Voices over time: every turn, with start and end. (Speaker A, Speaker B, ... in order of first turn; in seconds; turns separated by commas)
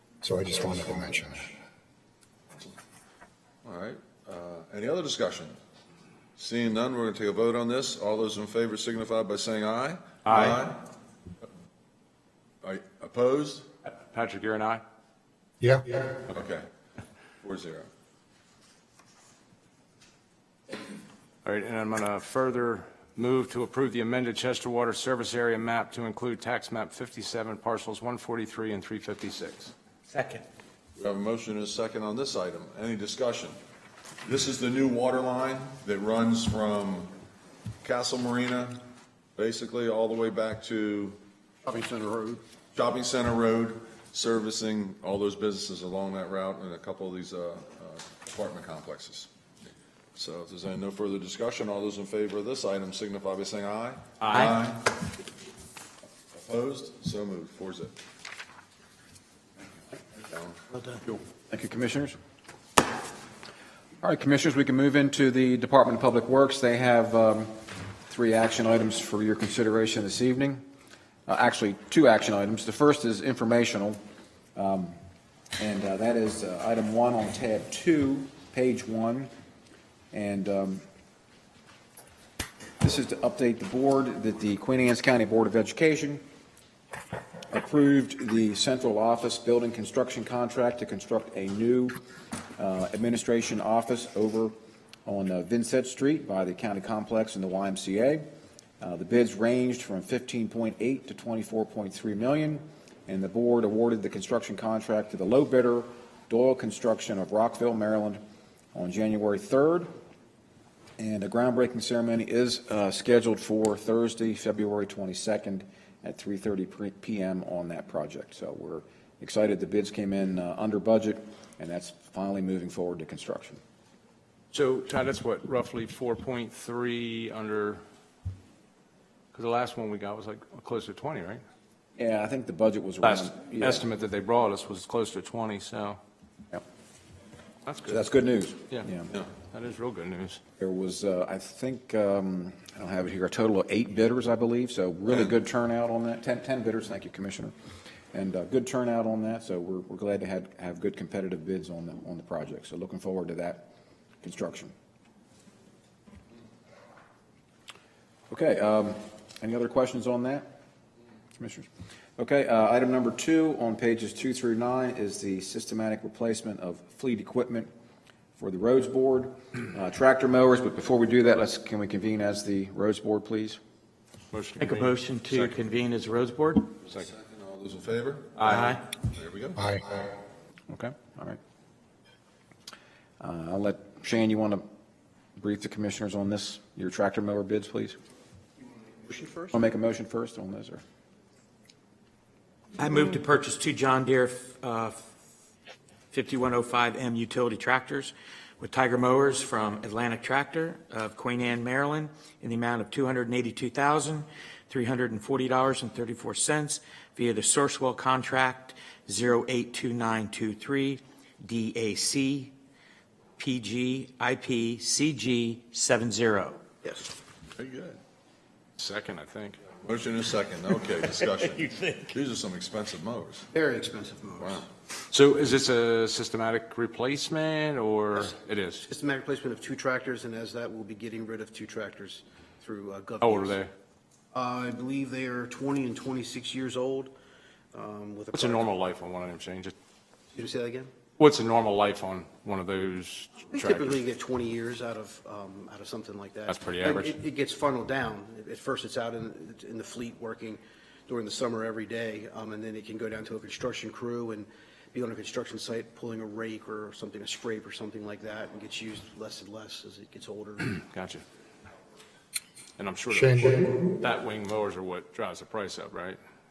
Speaker A: 0.2-1.6, Speaker B: 3.6-5.6, Speaker B: 6.4-10.8, Speaker C: 10.2-10.7, Speaker B: 12.6-13.7, Speaker C: 13.9-14.8, Speaker B: 16.3-16.7, Speaker B: 17.4-17.9, Speaker C: 21.4-29.7, Speaker D: 30.1-30.4, Speaker B: 31.0-33.6, Speaker B: 34.2-37.1, Speaker B: 37.8-38.8, Speaker B: 39.4-41.2, Speaker E: 41.6-42.4, Speaker B: 42.7-49.3, Speaker B: 50.2-55.1, Speaker B: 56.3-57.9, Speaker B: 60.2-60.6, Speaker E: 60.7-61.1, Speaker F: 61.5-62.2, Speaker F: 64.0-67.5, Speaker F: 68.0-70.6, Speaker F: 71.3-74.0, Speaker F: 74.5-75.0, Speaker F: 75.6-79.3, Speaker F: 80.1-80.8, Speaker F: 82.8-86.2, Speaker F: 87.5-92.0, Speaker F: 92.6-94.5, Speaker F: 95.1-98.2, Speaker F: 98.8-108.2, Speaker F: 108.7-109.9, Speaker F: 111.0-123.6, Speaker C: 124.5-127.8, Speaker C: 129.3-131.4, Speaker F: 132.0-133.9, Speaker C: 133.0-136.0, Speaker C: 137.7-138.0, Speaker F: 137.9-139.1, Speaker C: 139.5-140.4, Speaker F: 140.6-147.5, Speaker F: 148.1-153.7, Speaker F: 154.2-154.7, Speaker F: 158.3-160.6, Speaker F: 161.4-161.7, Speaker F: 162.2-167.7, Speaker F: 168.4-173.6, Speaker C: 174.3-174.9, Speaker D: 174.6-176.7, Speaker B: 175.3-175.6, Speaker B: 176.9-179.6, Speaker D: 178.5-178.8, Speaker F: 180.7-181.4, Speaker F: 183.2-184.6, Speaker F: 185.4-188.0, Speaker E: 189.1-189.5, Speaker F: 189.5-190.8, Speaker D: 192.8-195.0, Speaker D: 196.1-212.5, Speaker D: 213.4-216.6, Speaker B: 217.6-218.0, Speaker C: 218.8-219.6, Speaker B: 219.8-223.5, Speaker E: 223.5-224.7, Speaker B: 224.4-224.7, Speaker C: 225.1-228.9, Speaker E: 228.9-233.6, Speaker C: 233.2-233.7, Speaker E: 234.3-237.1, Speaker E: 237.7-238.7, Speaker C: 238.3-239.8, Speaker E: 240.3-240.9, Speaker C: 241.2-244.0, Speaker E: 243.5-260.7, Speaker C: 246.5-247.1, Speaker C: 260.8-261.2, Speaker C: 262.8-266.2, Speaker A: 263.1-263.9